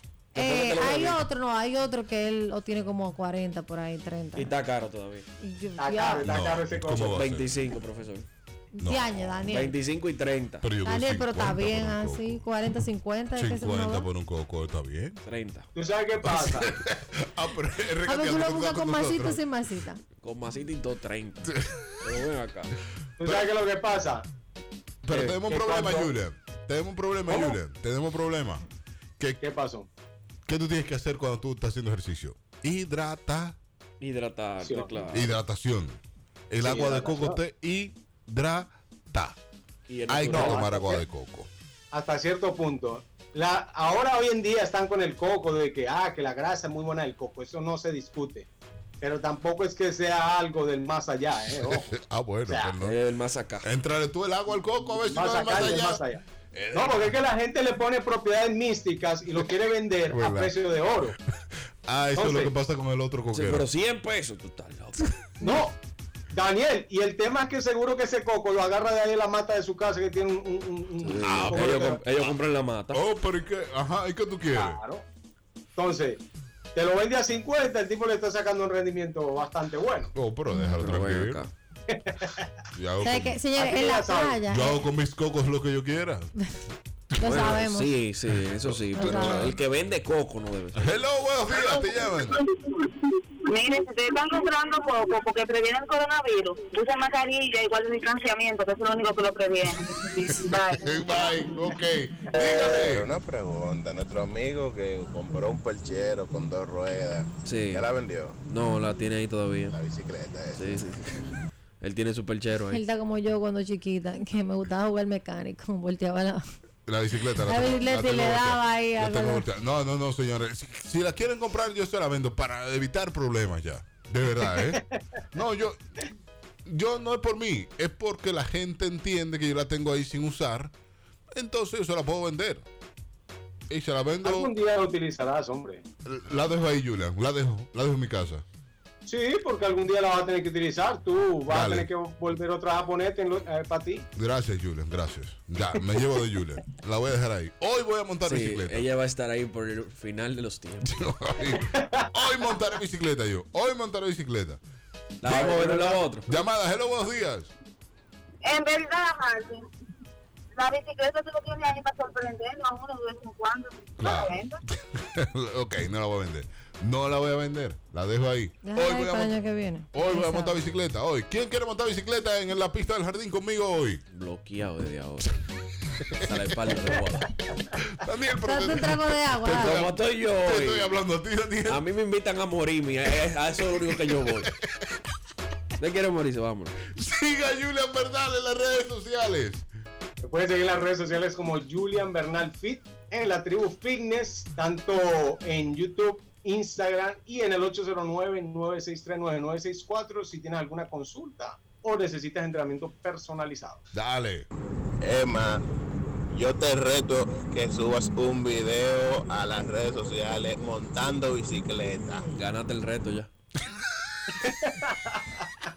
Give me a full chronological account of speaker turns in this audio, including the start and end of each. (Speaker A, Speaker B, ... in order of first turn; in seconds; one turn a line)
Speaker A: 0.3-4.5
Speaker B: 0.3-1.2
Speaker B: 4.3-5.3
Speaker A: 5.4-6.3
Speaker C: 5.8-7.3
Speaker D: 6.1-7.5
Speaker B: 6.9-8.2
Speaker A: 8.8-9.7
Speaker D: 8.8-9.7
Speaker B: 9.5-10.7
Speaker D: 10.6-12.4
Speaker A: 10.8-14.1
Speaker D: 13.3-15.2
Speaker B: 15.2-15.7
Speaker C: 15.7-16.7
Speaker D: 16.2-19.4
Speaker A: 18.0-20.0
Speaker B: 20.2-22.7
Speaker D: 21.5-21.9
Speaker C: 23.2-24.3
Speaker D: 25.0-28.6
Speaker B: 25.1-25.4
Speaker C: 25.4-26.1
Speaker C: 27.3-27.6
Speaker D: 29.2-29.4
Speaker C: 29.4-29.9
Speaker D: 30.4-33.6
Speaker B: 34.0-35.3
Speaker C: 34.6-35.0
Speaker D: 35.1-39.4
Speaker C: 36.6-37.4
Speaker B: 39.9-40.8
Speaker D: 40.1-41.5
Speaker C: 40.3-41.0
Speaker C: 41.9-48.5
Speaker C: 49.0-51.9
Speaker D: 51.6-53.0
Speaker C: 52.4-52.8
Speaker B: 52.8-53.7
Speaker D: 53.6-56.0
Speaker C: 55.0-61.1
Speaker D: 56.5-57.1
Speaker D: 60.1-60.5
Speaker D: 61.9-63.7
Speaker C: 62.1-62.5
Speaker B: 63.3-65.1
Speaker C: 65.4-65.8
Speaker C: 66.3-72.0
Speaker B: 71.0-73.0
Speaker D: 71.2-71.8
Speaker D: 72.9-74.8
Speaker C: 74.5-75.0
Speaker C: 75.8-76.2
Speaker C: 76.7-80.1
Speaker D: 80.1-81.4
Speaker B: 80.6-81.5
Speaker C: 81.9-82.5
Speaker D: 82.7-83.4
Speaker A: 83.0-84.9
Speaker C: 83.5-84.5
Speaker D: 84.5-86.3
Speaker D: 87.2-87.5
Speaker A: 87.2-87.9
Speaker B: 87.2-90.9
Speaker D: 88.6-89.6
Speaker A: 89.0-89.5
Speaker D: 90.7-92.4
Speaker E: 93.5-101.0
Speaker D: 100.5-103.1
Speaker F: 102.4-108.4
Speaker B: 107.4-107.9
Speaker B: 108.5-109.8
Speaker F: 109.7-111.0
Speaker B: 110.5-111.2
Speaker B: 111.8-112.8
Speaker A: 112.7-116.4
Speaker D: 116.9-124.8
Speaker A: 117.3-119.5
Speaker C: 124.4-125.0
Speaker D: 125.3-125.8
Speaker D: 126.7-130.7
Speaker D: 131.3-132.6
Speaker D: 133.7-134.5
Speaker C: 134.2-135.8
Speaker D: 136.0-138.4
Speaker C: 139.1-144.1
Speaker D: 141.5-141.9
Speaker D: 144.1-148.9
Speaker B: 148.2-150.9
Speaker D: 150.8-154.6
Speaker C: 151.7-152.4
Speaker B: 155.2-156.2
Speaker D: 155.3-155.5
Speaker C: 155.3-156.0
Speaker D: 156.2-157.5
Speaker E: 158.5-159.6
Speaker E: 160.6-164.5
Speaker D: 164.0-169.4
Speaker A: 168.6-170.6
Speaker D: 169.9-174.0
Speaker B: 174.1-175.3
Speaker B: 176.1-177.3
Speaker D: 177.5-181.8
Speaker A: 178.4-179.8
Speaker B: 179.4-180.9
Speaker B: 181.7-184.5
Speaker D: 183.9-184.7
Speaker B: 185.8-186.7
Speaker D: 186.9-189.7
Speaker C: 190.2-203.8
Speaker D: 203.9-204.5
Speaker F: 205.0-205.6
Speaker F: 206.3-212.3
Speaker B: 212.3-213.3
Speaker C: 214.4-215.3